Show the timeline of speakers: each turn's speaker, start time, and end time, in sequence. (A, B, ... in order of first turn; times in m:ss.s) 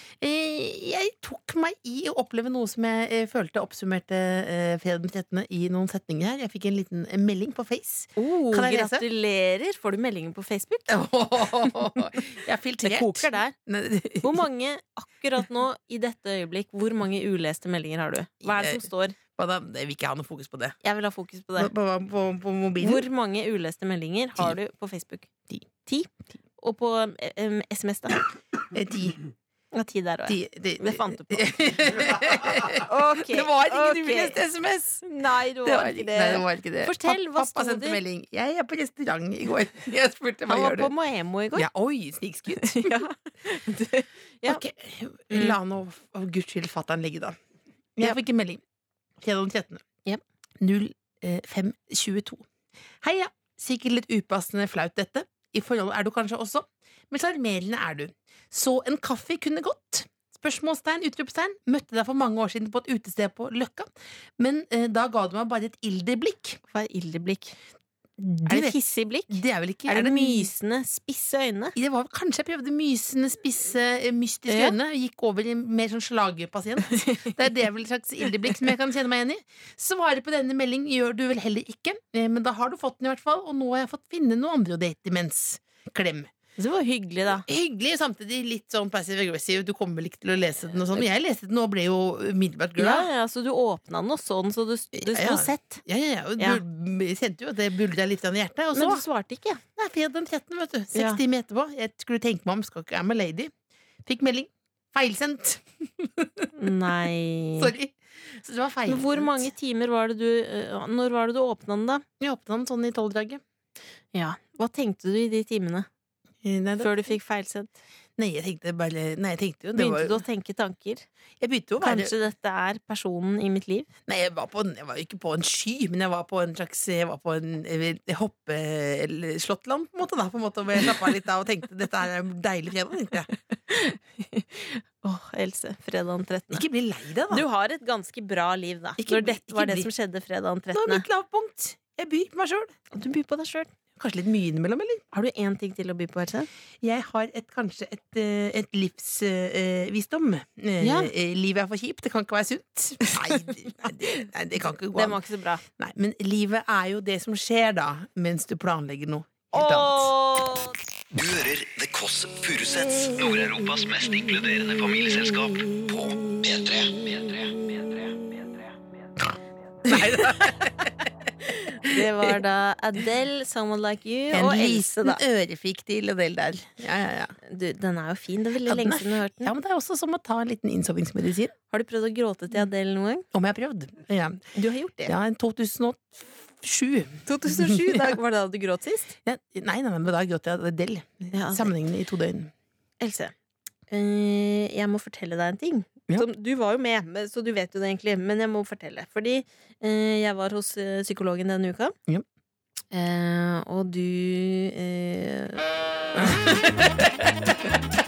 0:00.2-0:09.0 A
0:08.2-0:10.9 B
0:10.9-0:14.4 A
0:12.8-0:13.5 B
0:14.2-0:19.2 B
0:18.4-0:20.8 A
0:20.8-0:21.7 B
0:21.6-0:23.0 A
0:22.8-0:25.3 B
0:25.8-0:28.2 B
0:28.7-0:29.2 A
0:29.7-0:31.5 B
0:30.3-0:35.0 A
0:32.8-0:34.4 B
0:35.0-0:38.0 B
0:35.6-0:40.9 A
0:40.5-0:41.7 B
0:41.5-0:43.0 A
0:42.6-0:44.6 B
0:44.4-0:47.4 A
0:45.3-0:45.6 B
0:48.0-0:48.6 A
0:49.2-0:49.8 A
0:50.6-0:52.4 A
0:53.0-1:06.6 A
1:06.7-1:07.6 B
1:08.2-1:11.7 B
1:08.5-1:08.7 A
1:09.3-1:10.5 A
1:11.7-1:26.3 A
1:14.5-1:14.8 B
1:16.9-1:17.4 B
1:26.6-1:27.4 B
1:27.4-1:33.1 A
1:32.8-1:35.8 B
1:34.9-1:39.0 A
1:38.7-1:39.6 B
1:39.8-1:43.5 A
1:40.9-1:41.2 B
1:44.0-1:46.5 A
1:46.5-1:47.7 B
1:47.6-1:49.5 A
1:48.9-1:52.0 B
1:52.2-1:53.4 A
1:54.1-1:55.9 B
1:56.4-1:57.2 A
1:56.8-1:57.7 B
1:58.2-2:00.2 A
1:59.7-2:01.1 B
2:01.4-2:02.1 A
2:01.8-2:03.9 B
2:04.1-2:13.3 A
2:13.7-2:16.6 B
2:16.5-2:17.4 A
2:17.3-2:21.0 B
2:19.0-2:19.9 A
2:20.7-2:22.7 A
2:22.9-2:23.7 B
2:24.0-2:25.0 A
2:25.1-2:26.5 B
2:26.8-2:35.2 A
2:30.8-2:31.1 B
2:34.9-2:35.6 B
2:35.8-2:40.1 A
2:39.5-2:40.7 B
2:41.1-2:48.2 C
2:46.6-2:47.8 A
2:49.8-2:51.0 A
2:49.9-2:50.3 B
2:51.4-2:55.2 B
2:51.8-2:52.1 A
2:54.3-2:57.3 A
2:57.4-2:59.5 B
2:58.6-3:01.5 A
3:01.7-3:03.2 B
3:03.3-3:04.4 A
3:04.5-3:05.1 B
3:05.0-3:08.2 A
3:07.2-3:09.1 B
3:09.2-3:12.5 A
3:11.3-3:11.7 B
3:13.0-3:13.3 B
3:13.9-3:22.0 B
3:22.9-3:25.6 B
3:26.2-3:27.3 A